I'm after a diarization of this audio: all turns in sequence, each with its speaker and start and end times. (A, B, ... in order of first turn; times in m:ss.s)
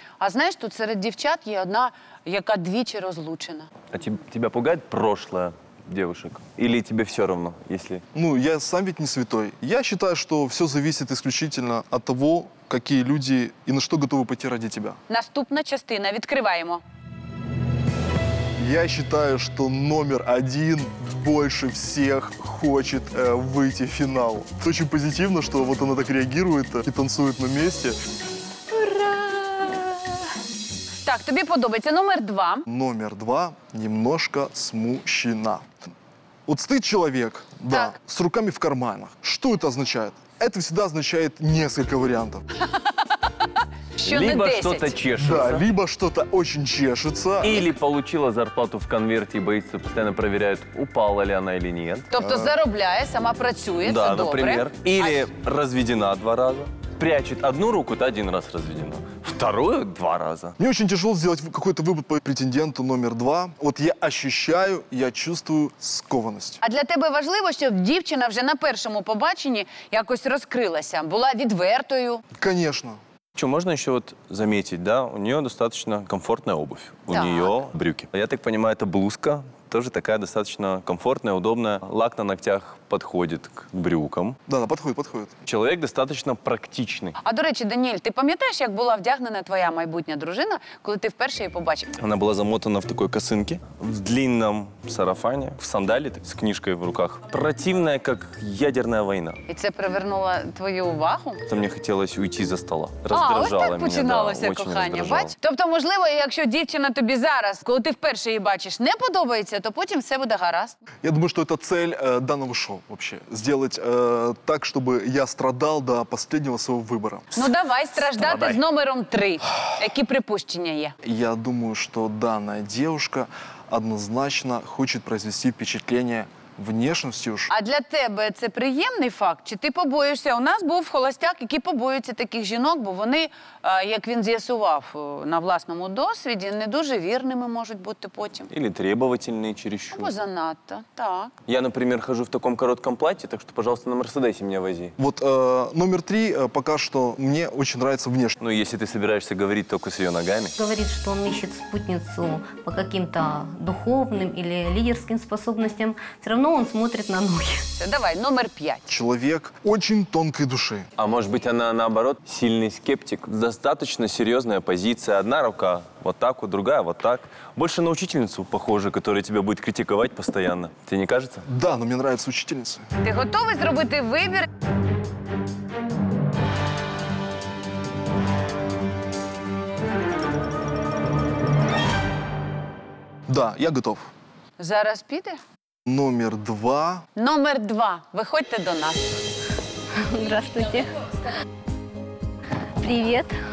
0:00.2-0:03.7 A
0:03.9-0:08.0 B
0:08.1-0:15.0 C
0:15.1-0:16.8 A
0:18.6-0:28.0 C
0:31.0-0:32.6 A
0:32.7-0:35.6 C
0:36.4-0:42.4 C
0:37.7-0:38.0 A
0:44.0-0:45.0 A
0:44.0-0:45.6 B
0:45.2-0:47.6 C
0:47.4-0:52.1 B
0:52.1-0:55.3 A
0:52.2-0:52.5 C
0:53.8-1:00.6 B
1:00.6-1:06.6 C
1:06.6-1:12.2 A
1:12.4-1:13.0 C
1:13.3-1:24.4 B
1:17.1-1:17.5 A
1:24.5-1:25.3 C
1:25.4-1:27.1 B
1:27.2-1:31.9 A
1:32.0-1:39.4 B
1:39.5-1:41.4 A
1:41.4-1:45.3 B
1:43.1-1:50.8 A
1:51.0-1:57.3 C
1:57.3-2:00.9 A
1:58.1-1:58.6 B
2:01.0-2:07.5 C
2:07.5-2:18.5 A
2:18.5-2:20.1 B
2:19.9-2:21.3 A
2:21.5-2:24.9 B
2:25.0-2:28.3 C
2:28.4-2:30.5 B
2:30.6-2:37.6 D
2:37.8-2:38.8 A
2:38.9-2:40.9 C
2:41.0-2:51.4 B
2:51.4-2:52.8 C
2:53.0-2:54.4 A
3:03.3-3:04.1 C
3:04.6-3:05.4 A
3:05.9-3:07.0 C
3:07.2-3:09.2 A
3:10.1-3:10.9 D
3:12.8-3:13.3 D